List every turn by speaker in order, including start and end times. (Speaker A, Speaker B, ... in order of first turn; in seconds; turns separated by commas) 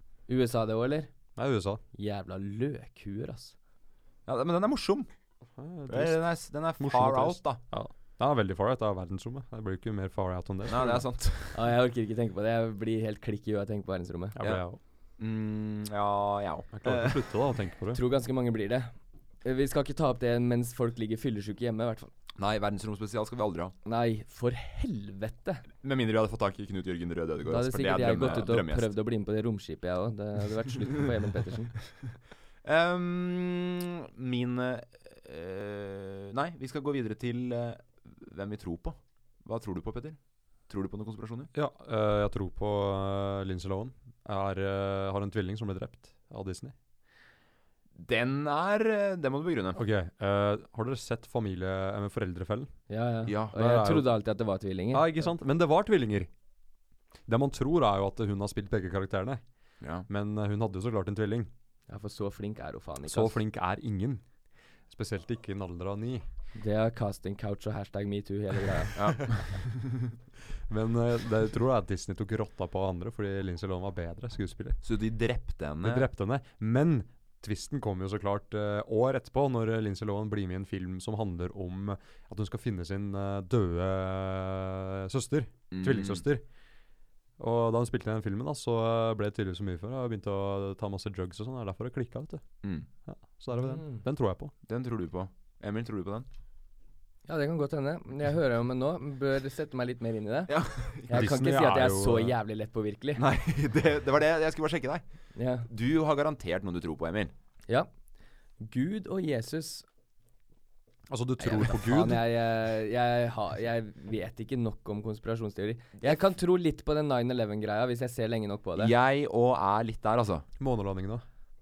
Speaker A: 0.3-1.1, Speaker B: 1.4-1.8, Speaker A: 1.9-3.6, Speaker C: 4.3-5.1, Speaker B: 5.6-11.1, Speaker C: 5.9-7.6, Speaker C: 10.7-11.6, Speaker A: 11.5-14.3, Speaker B: 14.4-14.8, Speaker C: 15.2-17.2, Speaker B: 16.7-18.0, Speaker A: 17.9-18.9, Speaker A: 19.4-22.1, Speaker C: 22.4-23.7, Speaker A: 23.9-25.6, Speaker C: 25.8-28.9, Speaker A: 27.5-31.7, Speaker C: 32.6-41.5, Speaker B: 41.5-46.7, Speaker C: 48.0-49.8, Speaker B: 49.8-52.7, Speaker A: 52.9-55.1, Speaker C: 53.3-53.6, Speaker B: 53.5-54.1, Speaker B: 54.9-56.3, Speaker B: 57.3-59.4, Speaker C: 59.8-60.1, Speaker B: 60.1-61.5, Speaker A: 61.9-63.4, Speaker B: 63.1-64.2, Speaker B: 64.9-66.2, Speaker A: 66.6-69.0, Speaker C: 69.0-70.0, Speaker B: 70.7-74.8, Speaker C: 74.8-76.1, Speaker B: 75.8-86.4, Speaker C: 85.7-86.2, Speaker B: 87.4-92.4, Speaker B: 93.1-94.5, Speaker A: 93.6-94.0, Speaker C: 94.7-96.3, Speaker A: 97.3-103.2, Speaker C: 100.5-101.3, Speaker B: 101.1-102.3, Speaker C: 103.2-105.0, Speaker A: 105.3-105.7, Speaker C: 105.7-107.3, Speaker A: 108.6-109.8, Speaker B: 111.1-112.2, Speaker A: 111.4-118.9, Speaker C: 118.8-120.5, Speaker B: 120.6-121.2